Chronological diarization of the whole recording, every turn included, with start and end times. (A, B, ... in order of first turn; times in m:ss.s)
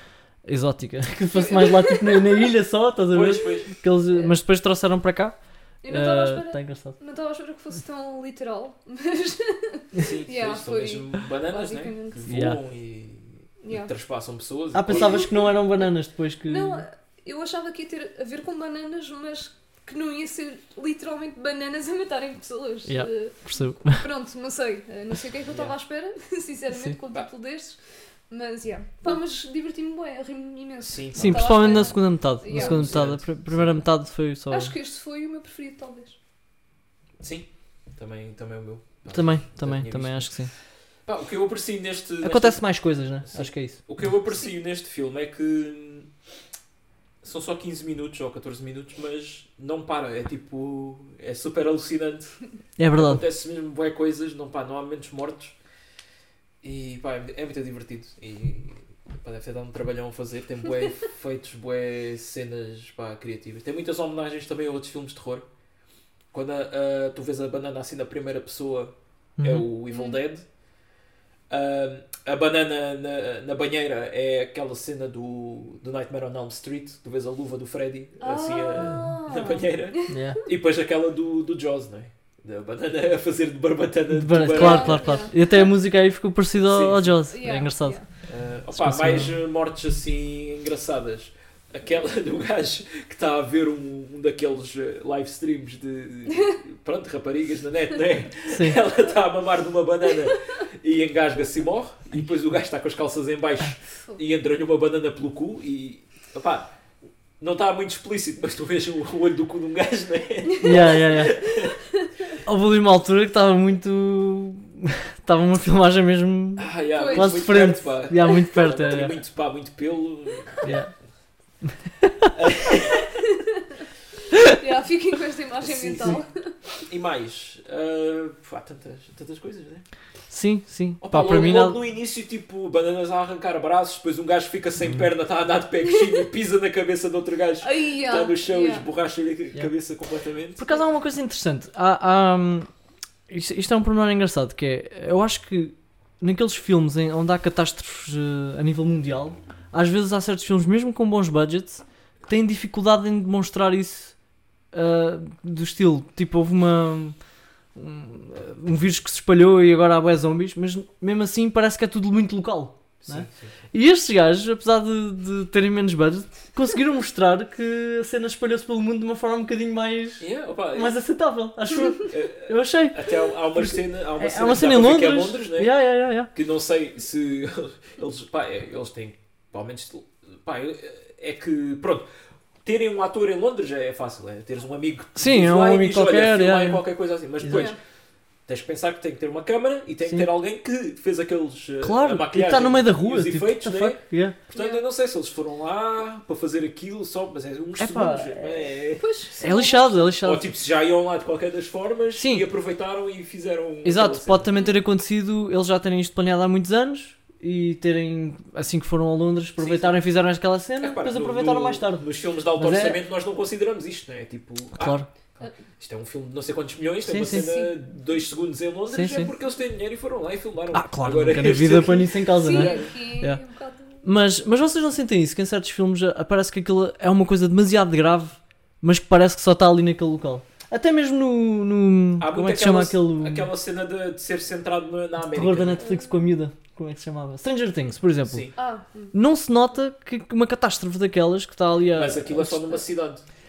0:00.4-0:07.0 A
0:01.3-0:02.5 B
0:03.1-0:03.7 C
0:05.8-0:12.4 B
0:10.0-0:15.4 C
0:12.3-0:12.6 A
0:13.6-0:13.9 B
0:14.7-0:16.8 A
0:14.9-0:15.4 B
0:16.5-0:27.8 B
0:22.9-0:24.0 A
0:25.5-0:25.8 C
0:26.7-0:27.0 A
0:28.3-0:33.1 B
0:30.8-0:33.8 C
0:31.2-0:34.7 A
0:34.5-0:36.2 B
0:37.2-0:40.4 C
0:39.1-0:40.5 A
0:41.1-0:42.7 C
0:42.2-0:43.8 A
0:43.2-0:46.1 C
0:47.2-0:52.4 C
0:52.8-0:53.2 A
0:52.9-0:55.6 C
0:56.6-1:05.5 C
1:06.3-1:10.4 C
1:09.4-1:09.7 A
1:09.9-1:10.2 B
1:11.5-1:25.3 C
1:18.2-1:20.2 B
1:20.1-1:20.4 A
1:24.1-1:28.0 A
1:24.5-1:25.7 B
1:26.6-1:27.2 C
1:27.3-1:28.1 B
1:28.3-1:46.7 C
1:28.8-1:29.3 A
1:38.5-1:38.8 A
1:47.4-1:51.8 C
1:50.5-1:51.3 B
1:50.6-1:51.4 A
1:52.4-1:59.2 A
1:56.6-2:00.8 C
1:56.9-1:57.6 B
2:00.6-2:00.9 A
2:01.6-2:02.3 A
2:02.4-2:03.1 C
2:03.1-2:03.8 B
2:04.4-2:06.5 B
2:05.6-2:06.2 C
2:06.9-2:09.8 C
2:10.3-2:11.8 A
2:11.0-2:20.8 C
2:14.8-2:15.1 A
2:17.6-2:18.8 B
2:20.6-2:22.7 A
2:23.3-2:34.2 A
2:34.7-2:37.2 A
2:37.7-2:56.3 A
2:43.0-2:43.5 C
2:50.2-2:51.0 C
2:51.9-2:55.8 C
2:56.3-3:02.1 C
3:02.6-3:07.8 C
3:05.2-3:06.8 A
3:07.4-3:07.7 A
3:07.5-3:07.8 B
3:08.5-3:19.2 C
3:11.8-3:14.4 A
3:14.5-3:14.8 B
3:17.8-3:18.6 A
3:19.0-3:20.1 B
3:19.4-3:20.4 A
3:20.2-3:24.5 C
3:22.2-3:22.5 A
3:23.8-3:32.0 A
3:29.6-3:30.0 C
3:30.8-3:42.9 C
3:32.6-3:33.0 A
3:34.8-3:35.1 A
3:37.1-3:37.5 A
3:37.2-3:37.7 B
3:38.9-3:39.3 A
3:40.7-3:43.4 A
3:42.3-3:44.1 B
3:44.0-3:53.5 A
3:52.2-3:55.8 C
3:55.2-3:58.5 A
3:55.8-3:56.1 B
3:58.2-3:58.5 C
3:58.6-3:59.1 B
3:59.1-4:02.8 A
4:01.9-4:03.2 C